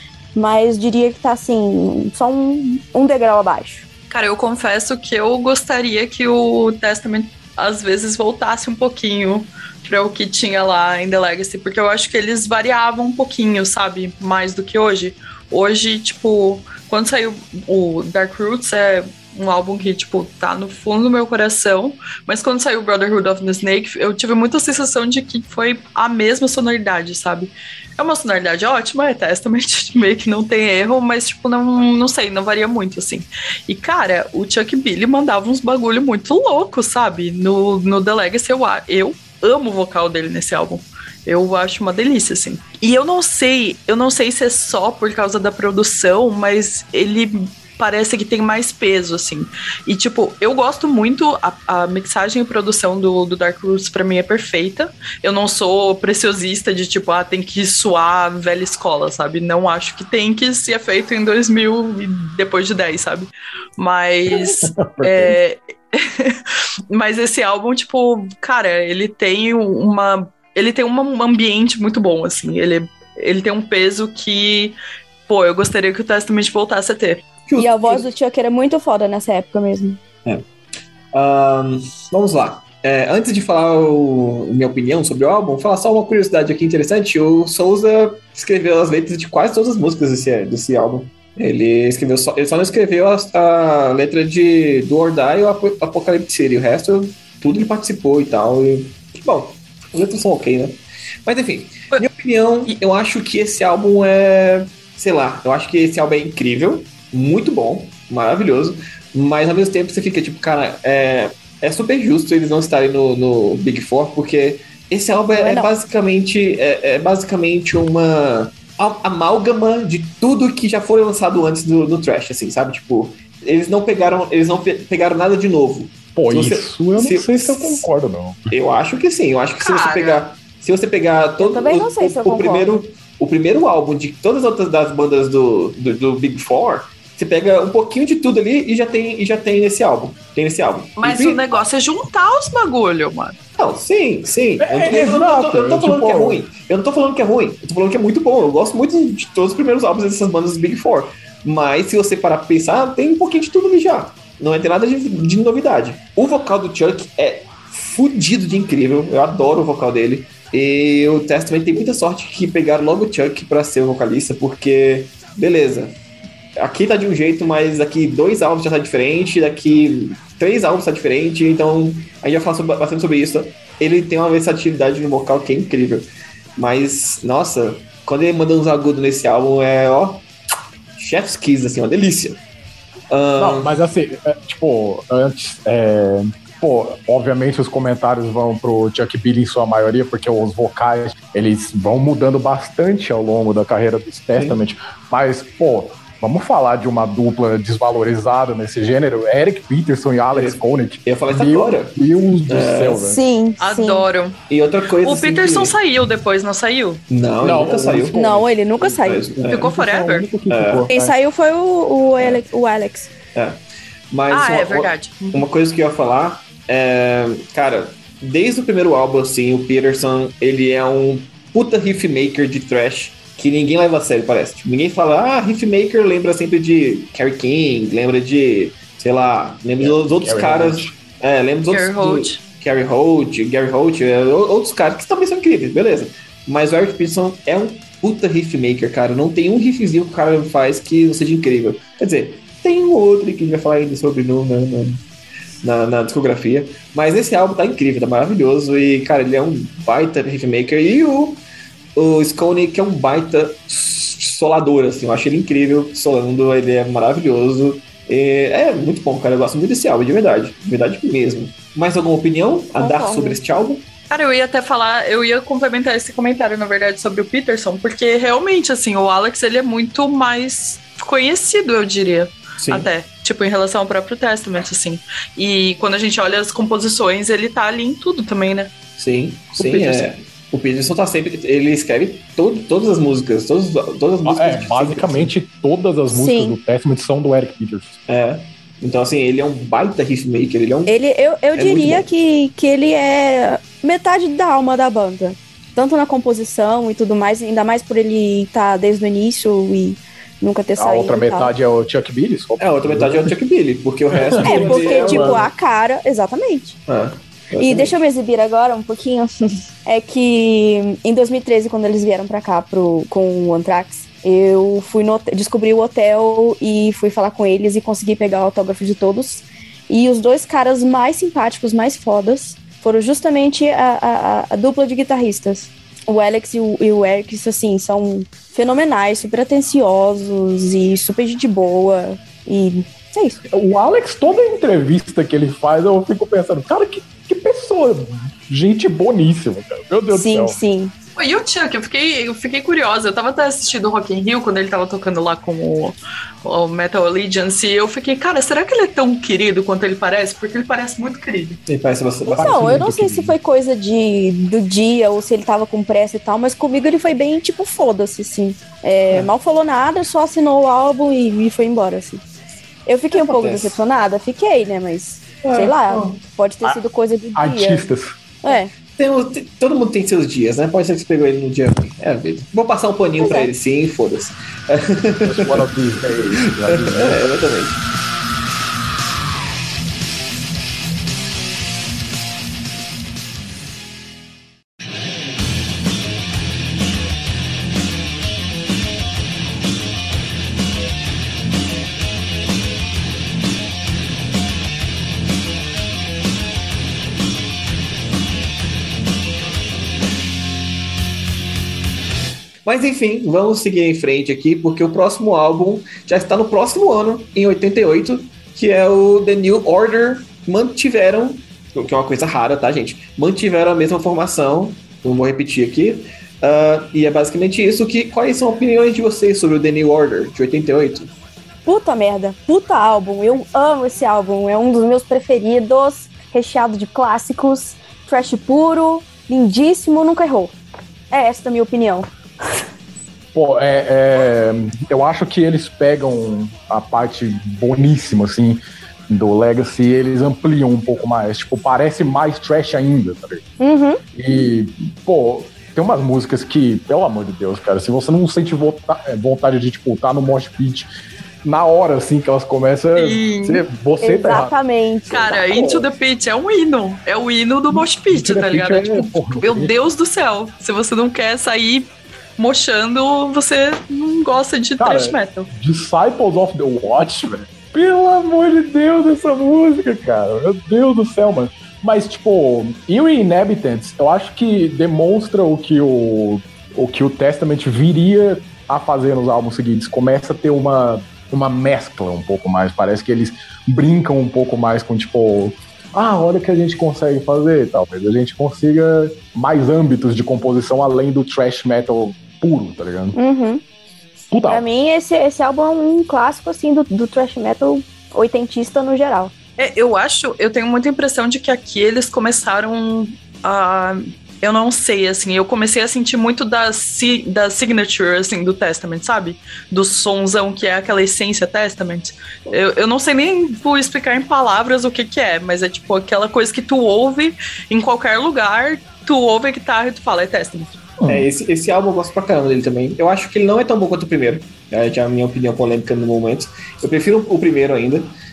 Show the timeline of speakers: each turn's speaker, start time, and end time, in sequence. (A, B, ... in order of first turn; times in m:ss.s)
0:00.3-0:03.8 A
0:04.1-1:14.8 B
1:04.3-1:05.4 C
1:15.3-1:17.3 B
1:17.5-1:18.1 D
1:17.6-1:20.0 A
1:21.1-2:07.9 D
1:55.3-1:55.7 A
2:06.2-2:08.5 C
2:08.5-2:21.6 D
2:09.6-2:10.2 B
2:11.4-2:12.7 A
2:21.0-2:23.4 B
2:23.6-2:46.0 D
2:24.6-2:26.4 C
2:46.6-3:00.3 D
3:01.0-3:02.4 D
3:03.1-3:03.8 D
3:03.4-3:23.2 C
3:14.4-3:14.6 D
3:20.3-3:23.2 D
3:23.1-3:24.1 A
3:23.6-3:24.4 B
3:24.5-3:25.8 D
3:25.0-3:27.0 B
3:27.1-3:28.2 D
3:27.4-3:28.5 C
3:28.2-3:29.2 A
3:28.8-3:29.8 D
3:29.5-3:31.2 C
3:29.5-3:30.3 B
3:30.5-3:30.9 D
3:30.9-3:33.1 A
3:33.4-4:05.0 D
3:34.3-3:35.4 B
3:49.8-3:50.9 C
3:51.7-3:52.4 B
4:05.6-4:11.4 D
4:12.0-4:23.8 D
4:22.8-4:23.4 A
4:24.1-4:38.7 B
4:32.6-4:32.9 D
4:39.0-4:45.3 D
4:39.6-4:40.1 B
4:44.2-4:48.0 C
4:46.1-4:46.6 A
4:48.1-4:50.9 D
4:50.9-5:01.5 A
4:51.6-4:52.1 D
5:00.8-5:03.3 C
5:02.6-5:05.5 D
5:04.1-5:05.4 C
5:04.4-5:06.8 A
5:06.9-5:08.0 D
5:07.6-5:33.4 A
5:33.5-5:40.6 C
5:40.1-5:40.9 A
5:41.2-5:51.6 B
5:51.7-5:52.8 D
5:52.3-6:02.2 A
5:52.3-5:53.4 C
6:02.9-6:07.9 A
6:03.1-6:03.8 D
6:05.4-6:06.2 D
6:07.4-6:08.2 C
6:08.4-6:08.7 A
6:09.0-6:15.7 D
6:13.2-6:13.5 A
6:15.2-6:17.3 C
6:16.4-6:17.8 D
6:42.6-7:01.1 D
7:01.7-7:10.6 A
7:11.1-7:12.1 A
7:13.3-7:23.4 C
7:23.6-7:24.0 A
7:24.2-7:30.9 C
7:31.4-7:34.6 C
7:33.0-7:33.6 B
7:34.0-7:35.9 A
7:35.1-7:45.5 B
7:37.7-7:39.7 C
7:44.8-8:13.2 C
8:13.2-8:13.6 A
8:14.3-8:14.6 C
8:14.5-8:19.3 A
8:19.6-8:40.8 B
8:41.0-8:41.3 C
8:41.1-8:48.1 D